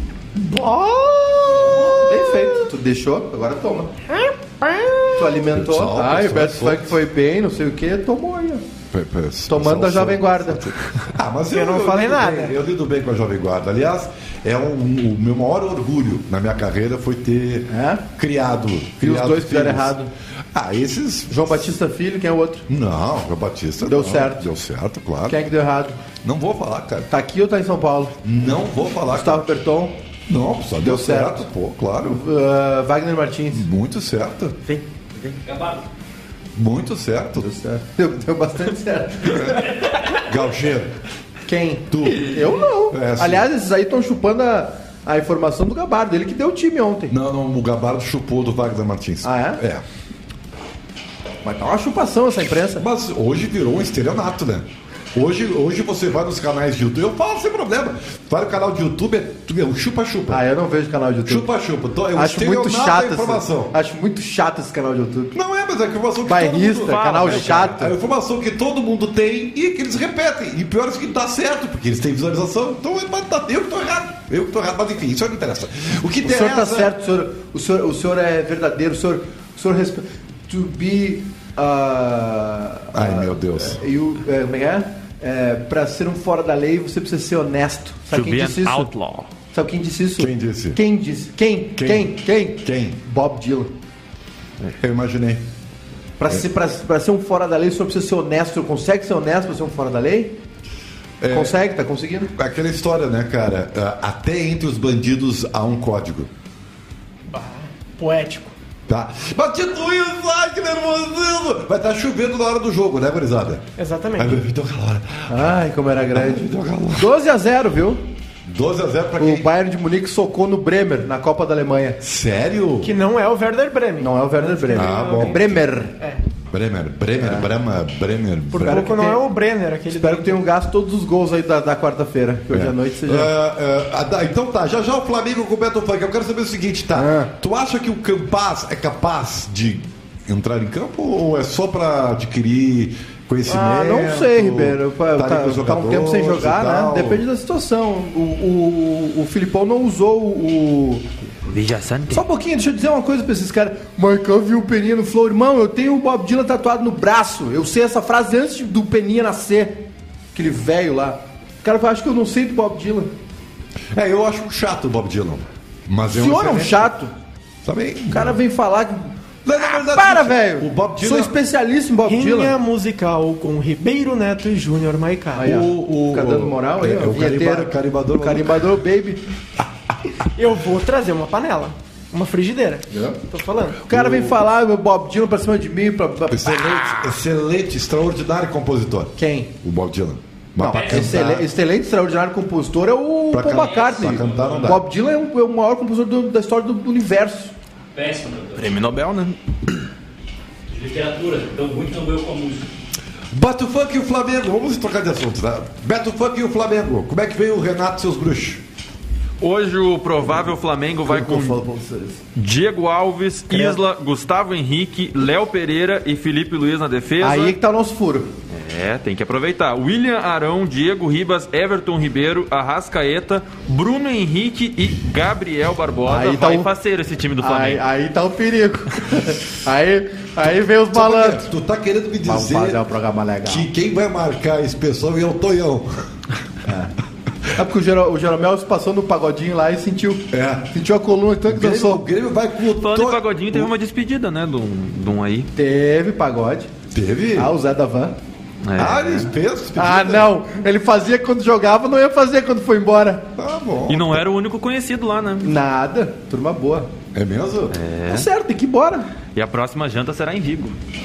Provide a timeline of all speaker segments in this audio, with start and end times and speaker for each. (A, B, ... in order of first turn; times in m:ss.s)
0:00.3-0:03.9 A
0:04.1-0:05.2 B
0:05.1-0:08.6 A
0:05.4-0:07.0 C
0:08.9-0:20.0 C
0:09.5-0:10.7 A
0:11.5-0:12.6 B
0:17.7-0:18.0 A
0:19.0-0:20.1 A
0:20.5-0:21.6 C
0:21.3-0:22.6 A
0:22.7-0:25.4 C
0:23.8-0:24.4 A
0:25.3-0:26.0 A
0:26.2-0:27.1 C
0:27.1-0:28.2 A
0:28.2-0:29.4 C
0:29.1-0:30.0 A
0:30.3-0:32.2 C
0:30.8-0:31.5 A
0:32.0-0:33.6 A
0:33.5-0:34.6 C
0:34.7-0:35.4 D
0:35.4-0:35.8 E
0:36.6-0:37.5 C
0:37.4-0:39.6 A
0:39.5-0:40.9 C
0:41.4-0:47.1 A
0:41.9-0:43.5 C
0:47.1-0:49.8 C
0:49.2-0:49.6 A
0:51.4-0:52.8 A
0:52.8-1:00.4 C
1:00.3-1:01.4 A
1:01.2-1:03.7 C
1:02.1-1:05.3 A
1:05.3-1:16.9 C
1:06.2-1:07.9 A
1:06.8-1:07.8 D
1:16.2-1:28.9 A
1:22.9-1:23.8 C
1:28.1-1:29.3 D
1:29.5-1:33.7 A
1:30.2-1:30.8 C
1:31.7-1:33.0 C
1:34.8-1:35.4 C
1:36.2-1:40.4 A
1:41.2-1:41.6 C
1:41.3-1:42.3 A
1:42.3-1:46.3 C
1:47.3-1:48.5 B
1:48.9-1:53.6 C
1:53.8-1:54.4 B
1:54.2-1:55.5 C
1:55.3-1:58.0 A
1:56.1-1:57.1 C
1:58.4-1:59.5 C
1:59.2-2:02.0 A
2:02.0-2:02.9 C
2:02.8-2:06.2 B
2:04.0-2:05.9 A
2:04.7-2:05.6 C
2:06.5-2:09.0 C
2:07.2-2:07.5 A
2:08.5-2:10.4 B
2:08.6-2:09.2 A
2:09.9-2:13.3 A
2:12.5-2:27.2 C
2:16.9-2:17.3 A
2:23.4-2:31.1 A
2:31.5-2:32.2 D
2:32.1-2:43.1 A
2:43.9-2:46.9 C
2:46.1-2:47.1 A
2:47.6-2:48.4 C
2:48.1-2:52.6 A
2:49.4-2:51.3 C
2:52.0-2:55.4 B
2:55.3-2:59.2 A
2:55.4-2:58.8 C
3:00.3-3:03.8 B
3:03.9-3:07.1 A
3:03.9-3:04.4 C
3:06.3-3:11.5 C
3:09.2-3:09.5 A
3:10.6-3:17.5 A
3:10.7-3:11.2 E
3:13.3-3:14.8 C
3:13.5-3:14.8 E
3:17.9-3:18.7 E
3:18.6-3:19.4 D
3:20.7-3:22.7 E
3:23.3-3:28.6 C
3:29.4-3:31.6 D
3:31.0-3:32.2 A
3:32.3-3:37.6 D
3:33.5-3:33.8 A
3:37.2-3:38.3 A
3:38.5-3:47.8 D
3:46.0-3:46.7 A
3:47.4-3:51.4 A
3:50.9-3:52.8 C
3:52.2-3:53.7 A
3:53.4-3:56.0 C
3:56.6-3:56.9 A
3:57.5-4:02.0 A
4:00.3-4:00.7 C
4:01.5-4:03.7 C
4:02.8-4:05.5 D
4:05.5-4:06.7 A
4:06.9-4:07.5 C
4:07.3-4:08.2 A
4:08.6-4:09.3 D
4:08.8-4:10.3 C
4:09.8-4:13.3 A
4:13.4-4:14.2 C
4:13.9-4:15.6 D
4:15.4-4:16.9 A
4:17.1-4:17.8 C
4:17.7-4:18.3 D
4:18.1-4:19.1 A
4:19.3-4:20.8 D